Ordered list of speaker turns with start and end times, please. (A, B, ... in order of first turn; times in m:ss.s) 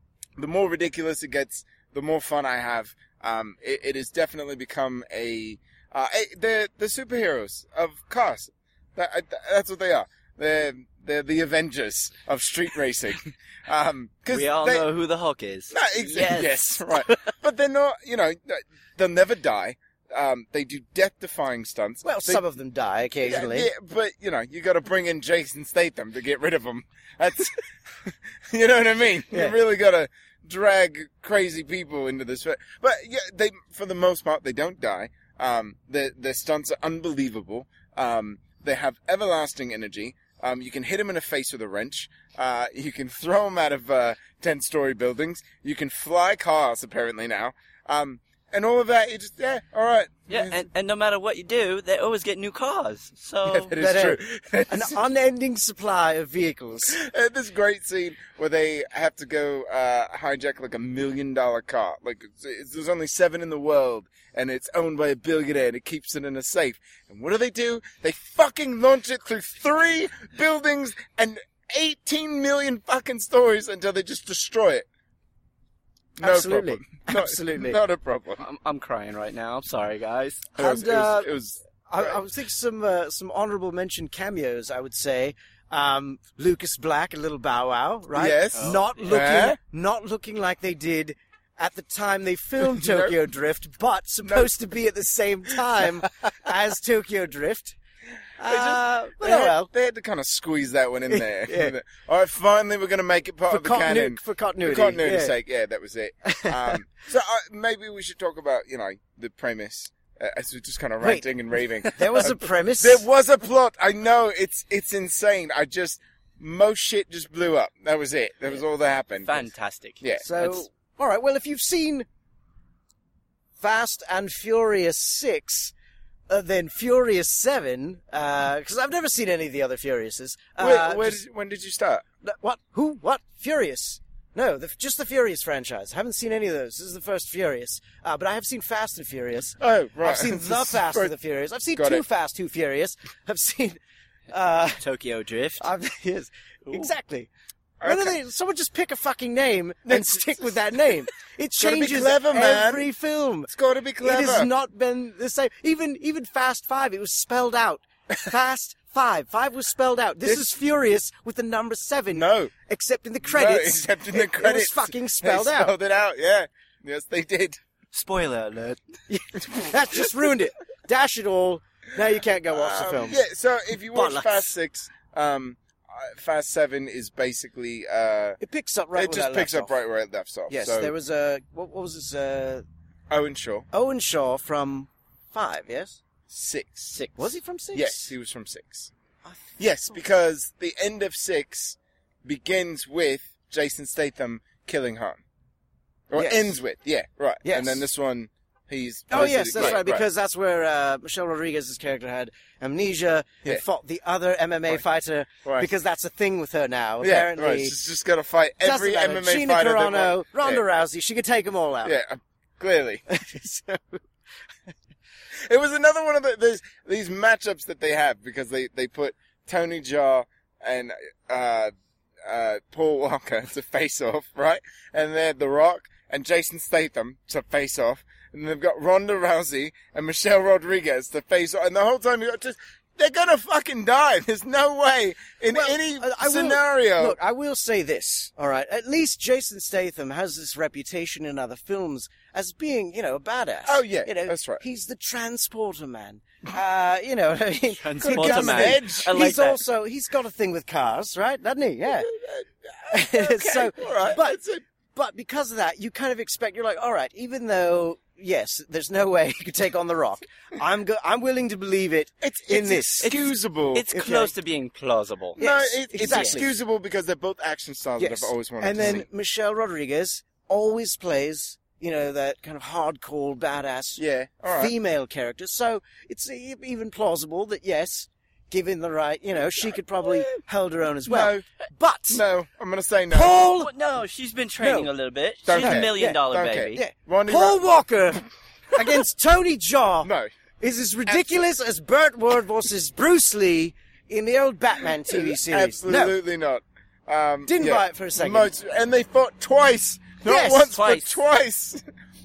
0:00.4-0:14.9 A
0:14.3-0:17.3 B
0:15.7-0:22.4 A
0:22.0-0:23.7 C
0:23.2-0:50.7 A
0:29.3-0:29.6 C
0:50.3-0:53.8 B
0:53.4-0:55.0 A
0:53.7-0:57.0 C
0:56.9-1:14.9 A
1:16.2-1:18.5 A
1:16.2-1:17.8 C
1:18.4-1:20.5 B
1:20.6-1:21.3 C
1:20.6-1:22.2 A
1:21.9-1:37.8 C
1:28.2-1:29.6 A
1:28.6-1:29.0 B
1:32.6-1:33.2 A
1:34.2-1:34.5 A
1:38.4-1:39.7 C
1:38.5-1:59.4 A
1:41.2-1:41.7 C
1:43.5-1:45.4 C
1:46.2-1:46.7 C
1:51.8-1:53.0 C
1:59.2-2:00.4 B
2:00.0-2:00.6 A
2:00.2-2:02.1 C
2:03.6-2:05.7 C
2:06.3-2:11.2 C
2:10.6-2:12.0 A
2:12.2-2:23.8 C
2:19.6-2:21.1 A
2:21.8-2:22.0 A
2:24.3-2:24.8 C
2:24.8-2:25.6 B
2:25.6-2:27.3 C
2:27.8-2:28.2 A
2:27.8-2:45.7 C
2:29.9-2:30.6 A
2:31.6-2:32.9 A
2:33.5-2:34.5 A
2:42.1-2:42.5 A
2:43.2-2:47.6 A
2:47.9-2:48.8 B
2:49.1-2:53.2 C
2:52.5-2:58.4 A
2:53.9-2:54.5 C
2:58.4-2:59.7 C
2:59.0-3:00.9 A
3:00.5-3:02.6 C
3:03.1-3:03.7 A
3:03.7-3:06.0 C
3:06.3-3:07.0 A
3:06.9-3:07.3 B
3:07.2-3:08.1 C
3:07.8-3:08.9 A
3:09.2-3:09.6 C
3:09.6-3:15.2 A
3:16.1-3:20.0 A
3:16.2-3:16.6 C
3:17.4-3:17.8 C
3:19.1-3:27.8 C
3:27.0-3:30.6 A
3:28.6-3:32.0 C
3:31.8-3:33.0 A
3:33.1-3:34.0 C
3:35.4-3:41.7 A
3:42.2-3:57.2 A
3:55.5-4:12.1 C
4:03.7-4:04.6 A
4:07.8-4:09.6 B
4:08.0-4:09.2 A
4:12.0-4:14.6 A
4:12.9-4:14.4 C
4:14.9-4:23.2 C
4:22.2-4:23.9 A
4:23.0-4:25.4 B
4:23.9-4:24.3 C
4:25.4-4:26.5 C
4:25.4-4:29.1 A
4:26.0-4:26.4 B
4:28.0-4:42.2 C
4:34.0-4:34.8 A
4:41.1-4:41.5 A
4:42.1-4:43.5 A
4:43.1-4:43.7 C
4:43.4-4:46.8 B
4:44.6-4:44.9 C
4:45.5-4:48.2 A
4:45.6-4:48.2 C
4:48.7-4:50.1 C
4:50.0-4:50.3 A
4:50.6-4:56.2 C
4:51.1-4:51.4 A
4:54.9-5:01.8 A
4:57.5-4:58.5 C
5:00.2-5:00.8 C
5:00.7-5:01.1 B